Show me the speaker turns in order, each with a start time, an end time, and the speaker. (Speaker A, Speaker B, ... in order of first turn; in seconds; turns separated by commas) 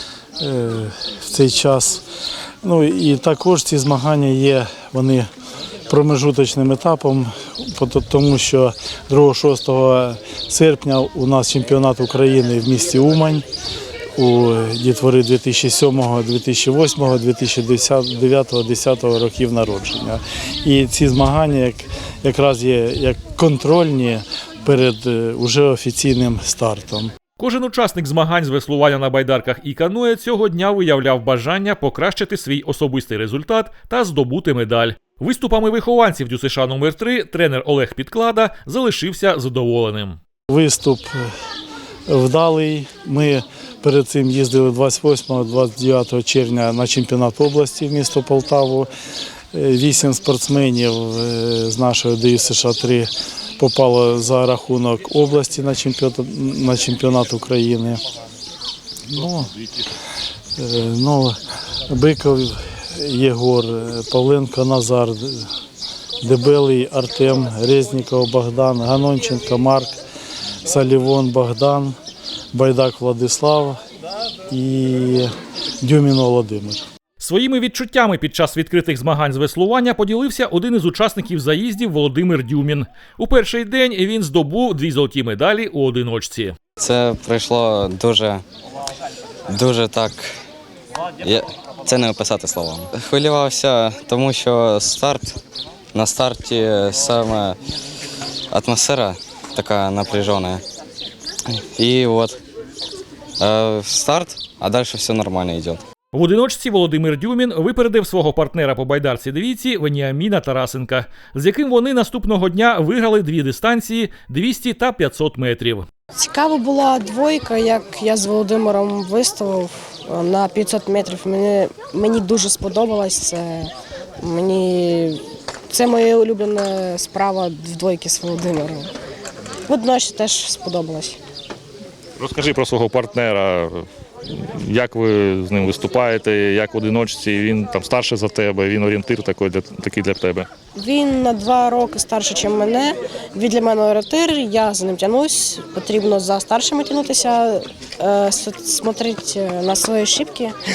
Speaker A: 0.4-2.0, Speaker A: 2.6-5.3, Speaker A: 5.9-13.4, Speaker A: 14.2-27.1, Speaker B: 27.4-40.2, Speaker A: 40.5-41.3, Speaker A: 42.1-48.9, Speaker A: 49.5-58.0, Speaker A: 59.1-59.5, Speaker A: 60.6-65.5, Speaker A: 66.2-70.0, Speaker A: 70.6-72.0, Speaker A: 72.5-73.8, Speaker A: 74.5-76.8, Speaker B: 77.2-86.5, Speaker C: 86.8-88.4, Speaker C: 89.5-90.3, Speaker C: 91.2-95.4, Speaker C: 95.9-97.6, Speaker C: 98.5-100.6, Speaker C: 101.5-102.4, Speaker C: 103.4-105.8, Speaker B: 106.1-115.9, Speaker D: 116.2-128.9, Speaker D: 129.7-131.2, Speaker E: 132.2-140.5, Speaker D: 140.8-150.6